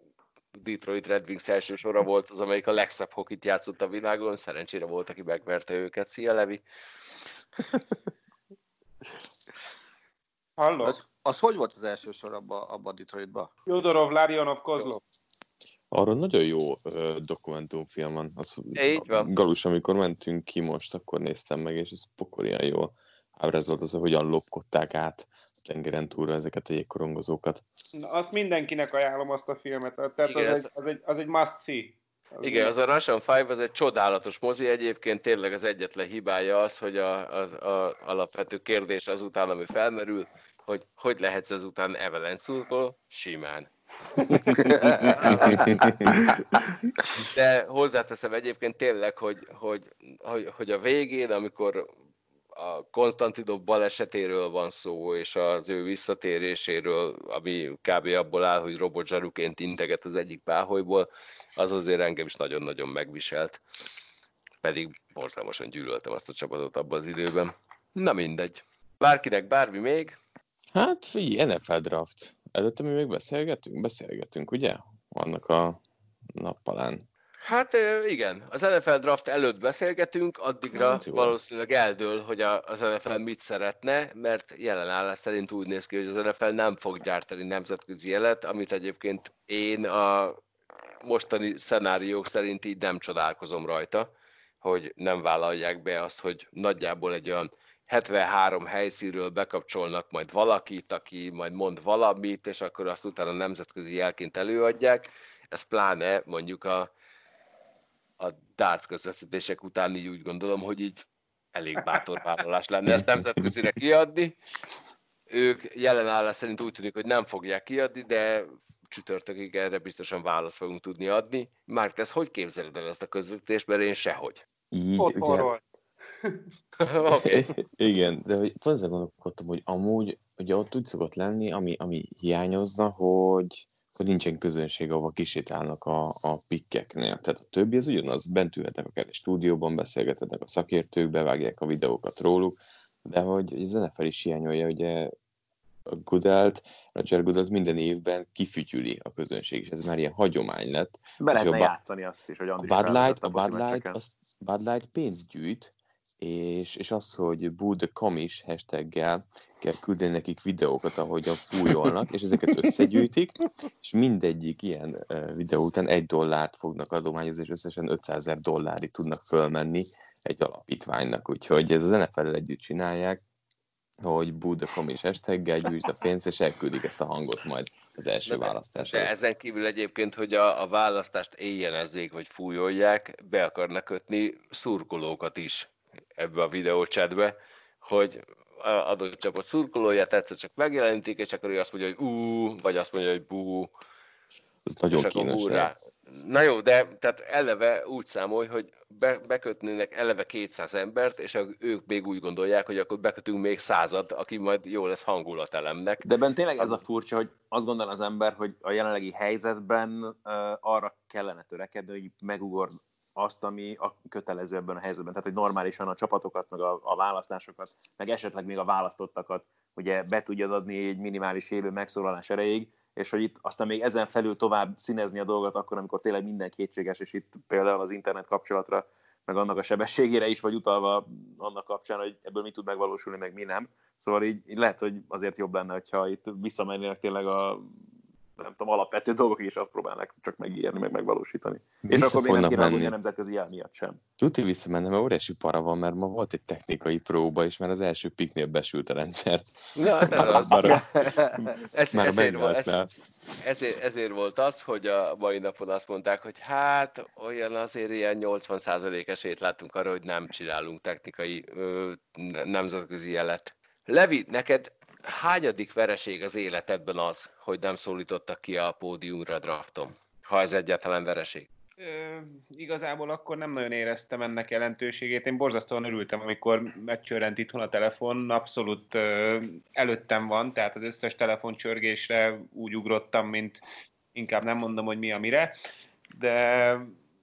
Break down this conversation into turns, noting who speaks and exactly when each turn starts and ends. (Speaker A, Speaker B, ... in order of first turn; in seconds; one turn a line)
Speaker A: 0.5-6.6
Speaker B: 10.6-11.0
Speaker C: 10.8-13.5
Speaker B: 13.7-15.0
Speaker D: 15.9-27.6
Speaker A: 18.8-19.3
Speaker B: 28.0-32.7
Speaker A: 30.3-30.7
Speaker A: 32.4-43.7
Speaker A: 44.3-45.9
Speaker C: 44.6-45.6
Speaker D: 45.5-46.3
Speaker A: 47.2-51.9
Speaker A: 52.5-63.6
Speaker A: 64.6-70.2
Speaker D: 70.7-75.8
Speaker D: 76.4-77.0
Speaker A: 77.4-90.4
Speaker D: 80.7-81.4
Speaker A: 91.0-94.1
Speaker A: 94.6-106.9
Speaker A: 108.2-114.4
Speaker A: 115.3-124.4
Speaker D: 124.7-125.5
Speaker B: 125.0-125.6
Speaker A: 126.8-127.5
Speaker D: 127.1-145.1
Speaker D: 145.9-151.7
Speaker E: 151.2-154.0
Speaker D: 152.6-173.2
Speaker D: 174.0-179.1
Speaker A: 178.3-193.7
Speaker D: 194.7-195.7
Speaker A: 194.9-206.1
Speaker E: 206.0-237.7
Speaker E: 238.4-244.0
Speaker D: 241.9-242.9
Speaker D: 244.2-250.8
Speaker A: 249.8-250.9
Speaker E: 250.2-251.6
Speaker A: 251.6-252.8
Speaker D: 251.9-252.9
Speaker A: 253.4-271.5
Speaker B: 271.8-283.6
Speaker B: 284.1-285.5
Speaker B: 286.1-286.9